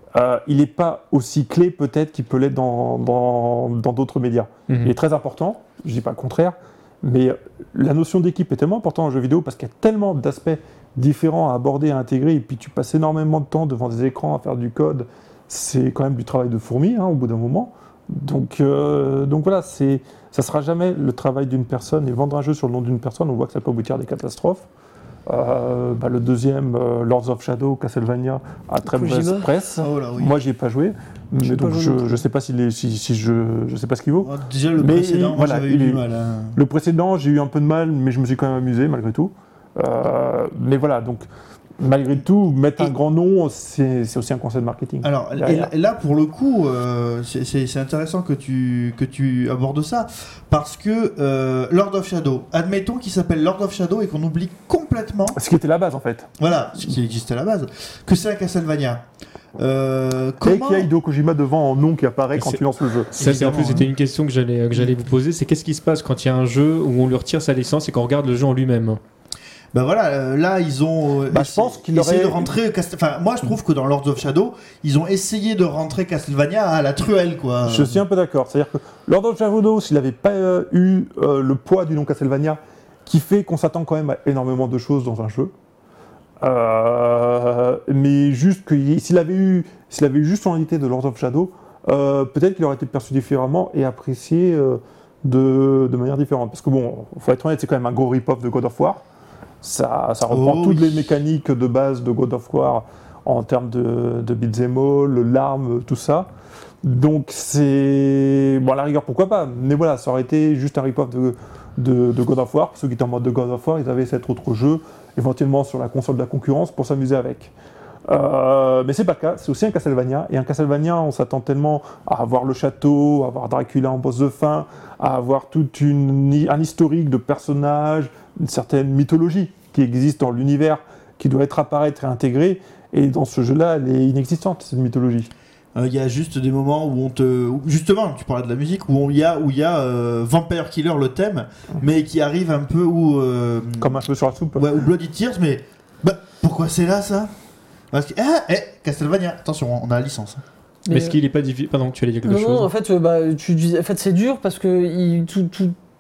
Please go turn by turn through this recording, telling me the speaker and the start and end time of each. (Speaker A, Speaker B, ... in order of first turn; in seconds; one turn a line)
Speaker A: 0.1-24.7
Speaker B: 4.7-4.9
Speaker A: 25.3-36.0
Speaker C: 28.9-29.5
Speaker D: 29.8-30.4
Speaker C: 31.4-32.2
Speaker D: 34.2-36.6
Speaker A: 36.5-41.3
Speaker A: 41.8-45.7
Speaker D: 45.0-55.4
Speaker A: 55.3-56.3
Speaker D: 56.4-59.0
Speaker D: 59.6-60.9
Speaker A: 60.4-63.9
Speaker B: 62.4-62.6
Speaker B: 63.1-69.0
Speaker D: 63.2-63.9
Speaker D: 69.7-78.0
Speaker A: 71.3-72.6
Speaker A: 77.7-85.5
Speaker A: 86.4-99.0
Speaker A: 99.6-106.3
Speaker D: 100.3-101.0
Speaker A: 106.8-117.5
Speaker A: 118.1-135.3
Speaker D: 135.8-143.9
Speaker A: 143.8-144.7
Speaker D: 144.6-147.3
Speaker D: 147.9-150.4
Speaker C: 150.9-151.2
Speaker B: 150.9-152.7
Speaker C: 152.2-155.8